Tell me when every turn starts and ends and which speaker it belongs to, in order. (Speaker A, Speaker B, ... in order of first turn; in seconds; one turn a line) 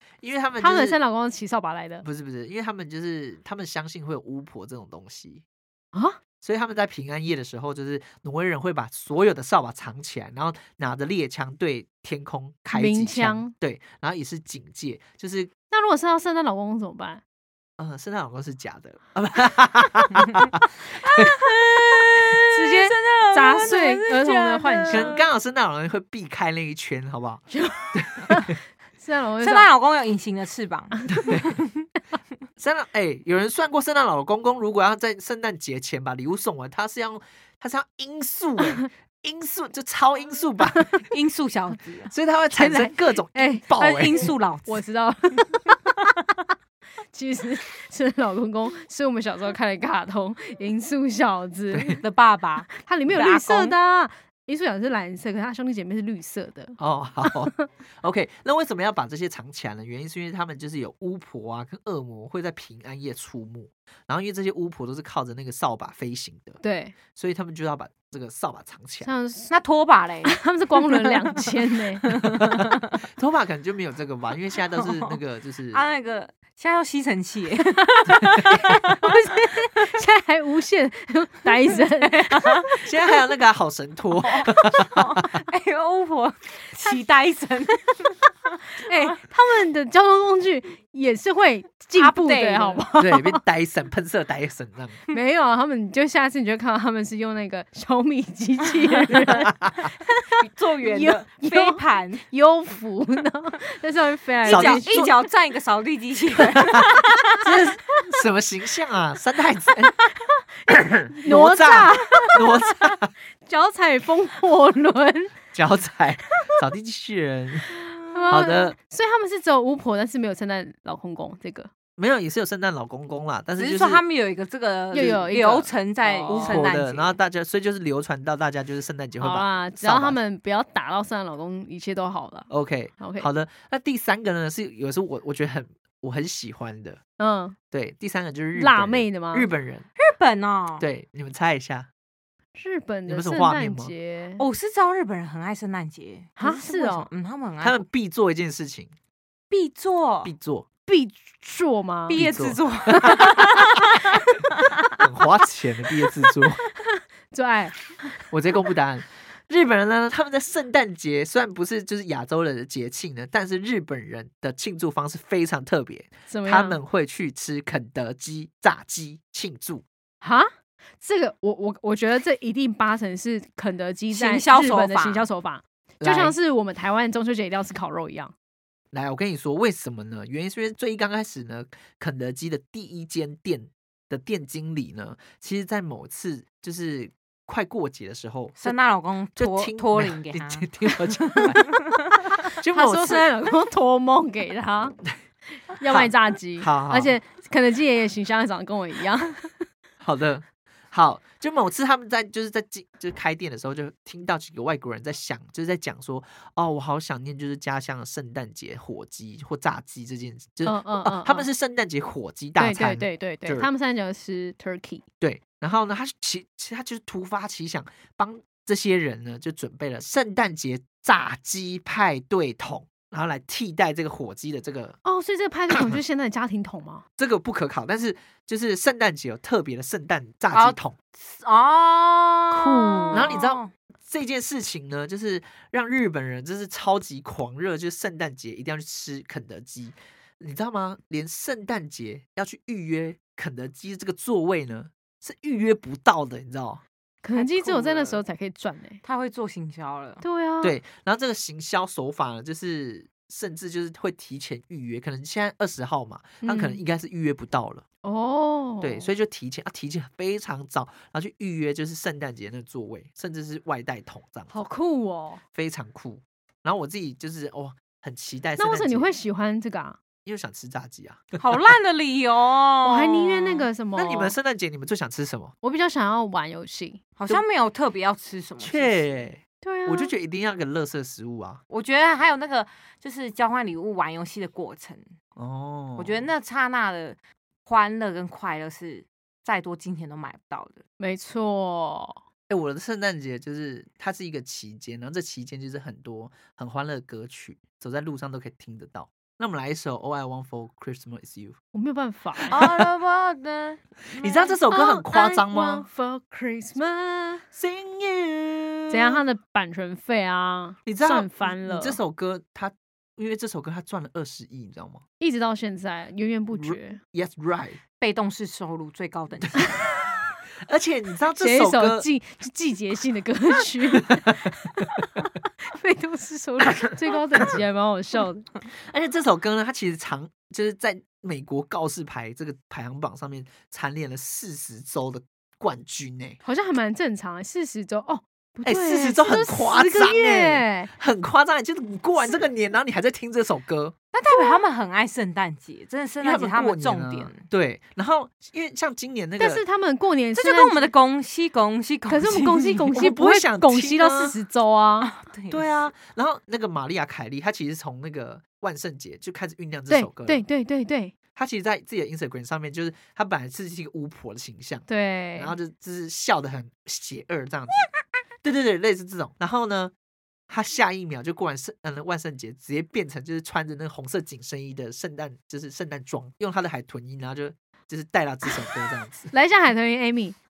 Speaker A: 0.2-1.0
Speaker B: 0.6-2.0
Speaker A: 2.0-5.4
Speaker B: 5.9-6.2
Speaker A: 6.4-15.5
Speaker B: 12.7-13.5
Speaker B: 15.7-17.2
Speaker A: 17.8-21.3
Speaker C: 20.1-25.2
Speaker B: 22.5-25.2
Speaker A: 24.9-28.6
Speaker B: 27.5-29.7
Speaker C: 29.4-31.8
Speaker A: 31.1-31.6
Speaker A: 32.6-41.0
Speaker C: 41.1-42.9
Speaker A: 42.1-44.3
Speaker B: 42.6-46.1
Speaker C: 43.7-44.8
Speaker B: 47.1-52.0
Speaker A: 51.7-52.0
Speaker C: 52.0-53.7
Speaker B: 52.7-57.6
Speaker A: 56.8-66.6
Speaker B: 66.6-66.9
Speaker A: 67.1-69.1
Speaker B: 69.0-69.5
Speaker C: 69.5-72.9
Speaker B: 70.2-72.2
Speaker A: 72.4-75.8
Speaker C: 74.8-75.2
Speaker C: 75.7-79.3
Speaker B: 78.2-82.9
Speaker C: 81.7-82.7
Speaker A: 82.8-85.4
Speaker C: 84.2-88.2
Speaker B: 88.8-93.4
Speaker C: 92.0-92.8
Speaker A: 93.0-95.0
Speaker B: 95.1-105.0
Speaker C: 98.9-99.5
Speaker C: 100.3-102.2
Speaker C: 104.4-107.4
Speaker A: 104.5-105.1
Speaker A: 106.5-110.0
Speaker A: 110.7-113.1
Speaker B: 110.9-112.9
Speaker B: 113.5-115.4
Speaker A: 115.5-117.7
Speaker C: 118.0-118.4
Speaker B: 118.1-121.7
Speaker A: 118.3-118.8
Speaker A: 122.0-124.0
Speaker C: 123.6-127.2
Speaker B: 124.9-126.7
Speaker A: 126.3-130.2
Speaker B: 129.2-133.3
Speaker A: 132.5-137.0
Speaker B: 137.2-137.6
Speaker A: 137.7-139.9
Speaker B: 138.6-139.5
Speaker C: 140.0-140.9
Speaker A: 140.8-141.9
Speaker B: 142.6-144.4
Speaker A: 143.1-143.9
Speaker C: 144.4-147.8
Speaker B: 146.4-147.1
Speaker A: 147.6-148.9
Speaker C: 149.5-150.3
Speaker A: 150.2-150.7
Speaker B: 150.9-152.2
Speaker C: 152.1-154.9
Speaker A: 152.1-153.3
Speaker B: 152.9-153.4
Speaker A: 155.0-156.6
Speaker B: 157.3-157.9
Speaker A: 158.3-169.8
Speaker B: 166.3-166.8
Speaker B: 170.2-170.5
Speaker B: 171.0-178.3
Speaker C: 174.1-175.3
Speaker A: 176.0-176.4
Speaker A: 178.9-188.8
Speaker C: 188.6-191.9
Speaker A: 189.4-193.5
Speaker B: 192.5-195.0
Speaker B: 195.7-199.7
Speaker A: 195.8-197.1
Speaker A: 200.0-213.7
Speaker B: 210.6-211.5
Speaker B: 212.6-215.0
Speaker A: 215.2-225.0
Speaker B: 225.1-227.1
Speaker A: 225.7-226.0
Speaker A: 227.2-230.9
Speaker C: 230.5-233.7
Speaker B: 232.5-233.3
Speaker A: 233.1-246.8
Speaker B: 247.2-249.0
Speaker C: 247.4-248.2
Speaker C: 249.0-250.2
Speaker B: 250.2-250.8
Speaker A: 250.6-257.8
Speaker B: 256.4-256.8
Speaker B: 258.0-259.1
Speaker A: 258.8-264.5
Speaker B: 264.5-265.4
Speaker A: 265.5-269.1
Speaker B: 268.6-270.0
Speaker A: 270.2-271.4
Speaker C: 271.4-273.7
Speaker B: 272.9-274.4
Speaker A: 273.9-275.5
Speaker B: 275.6-277.1
Speaker C: 277.2-279.0
Speaker A: 278.6-281.6
Speaker B: 279.6-280.1
Speaker C: 281.7-285.1
Speaker A: 285.4-286.3
Speaker C: 286.0-290.8
Speaker B: 291.0-292.2
Speaker A: 292.5-301.6
Speaker B: 301.7-302.7
Speaker C: 302.5-304.6
Speaker A: 302.5-302.9
Speaker A: 304.2-305.9
Speaker B: 304.7-307.4
Speaker A: 307.5-309.2
Speaker B: 308.9-312.0
Speaker A: 310.9-315.0
Speaker B: 315.2-317.0
Speaker A: 316.5-317.8
Speaker C: 318.0-319.7
Speaker A: 319.4-319.7
Speaker A: 320.6-322.1
Speaker B: 321.4-328.5
Speaker A: 324.0-324.2
Speaker A: 327.3-327.6
Speaker A: 328.9-336.4
Speaker B: 336.4-340.9
Speaker A: 338.6-343.9
Speaker C: 344.1-347.5
Speaker A: 346.2-349.6
Speaker B: 349.4-350.9
Speaker C: 350.4-353.0
Speaker B: 352.1-355.1
Speaker A: 352.9-354.4
Speaker C: 355.0-355.6
Speaker A: 355.5-360.4
Speaker B: 359.9-361.1
Speaker A: 361.4-367.9
Speaker B: 364.9-365.5
Speaker A: 368.4-369.9
Speaker A: 370.5-379.3
Speaker B: 379.3-380.4